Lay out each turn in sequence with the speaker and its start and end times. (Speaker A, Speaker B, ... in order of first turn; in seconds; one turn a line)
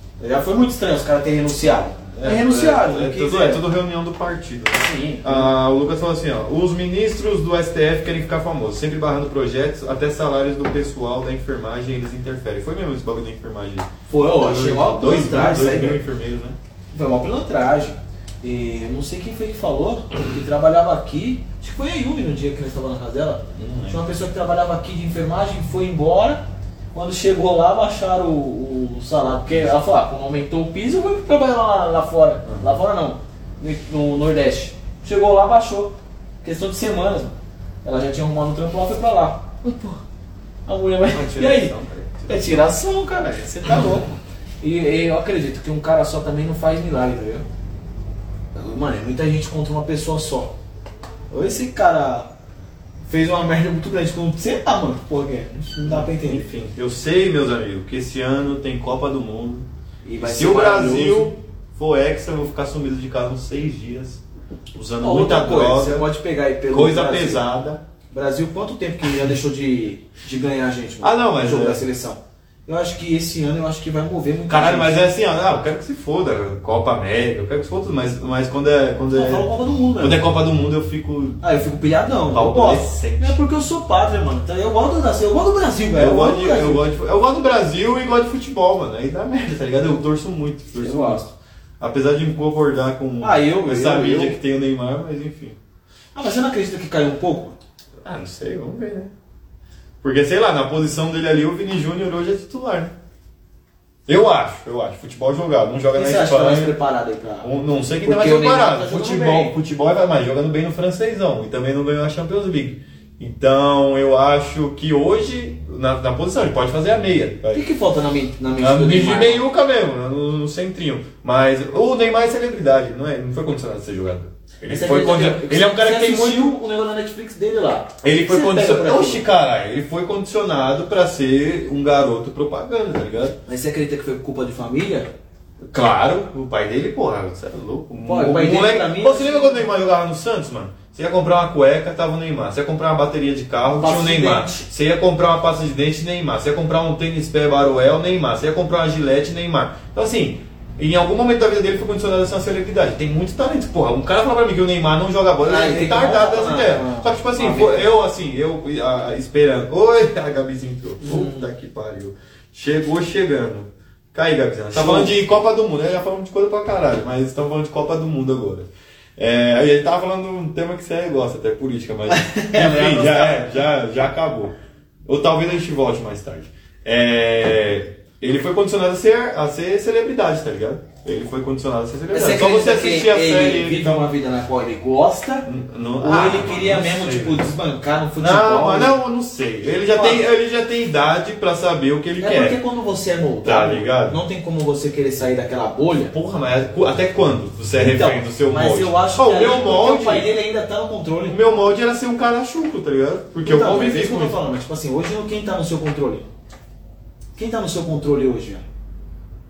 Speaker A: 0.2-3.6
Speaker B: 2.1-16.6
Speaker A: 4.7-5.5
Speaker A: 14.1-16.0
Speaker A: 16.9-40.0
Speaker B: 23.6-24.0
Speaker A: 40.7-41.7
Speaker B: 41.1-42.7
Speaker A: 42.3-47.5
Speaker A: 48.5-50.5
Speaker A: 51.3-52.3
Speaker A: 53.1-56.5
Speaker B: 55.9-59.7
Speaker A: 60.0-61.3
Speaker B: 60.2-64.2
Speaker B: 64.7-66.1
Speaker A: 65.0-67.5
Speaker B: 66.7-67.8
Speaker A: 68.1-75.0
Speaker B: 71.0-71.8
Speaker B: 74.5-79.5
Speaker A: 79.1-80.2
Speaker B: 80.0-81.4
Speaker A: 81.4-86.8
Speaker B: 82.3-83.4
Speaker B: 86.0-91.3
Speaker A: 90.8-91.3
Speaker B: 91.8-95.6
Speaker A: 93.2-94.4
Speaker A: 96.2-97.6
Speaker B: 98.0-99.1
Speaker B: 100.0-102.9
Speaker B: 104.1-106.8
Speaker A: 106.0-107.5
Speaker B: 107.4-117.7
Speaker A: 108.0-109.5
Speaker A: 117.5-119.4
Speaker B: 118.6-126.5
Speaker A: 124.7-129.2
Speaker B: 128.0-133.4
Speaker A: 133.5-135.1
Speaker B: 135.7-174.5
Speaker A: 138.0-139.7
Speaker A: 143.8-144.7
Speaker A: 155.4-157.9
Speaker A: 161.0-161.5
Speaker A: 164.8-165.1
Speaker A: 172.1-173.5
Speaker B: 175.1-184.1
Speaker A: 182.1-185.5
Speaker B: 185.5-187.5
Speaker A: 186.0-189.0
Speaker B: 188.2-192.6
Speaker A: 189.9-190.2
Speaker A: 192.2-196.1
Speaker B: 193.4-194.2
Speaker B: 196.1-200.3
Speaker A: 197.8-201.4
Speaker B: 201.3-204.4
Speaker A: 203.4-206.3
Speaker A: 207.4-208.7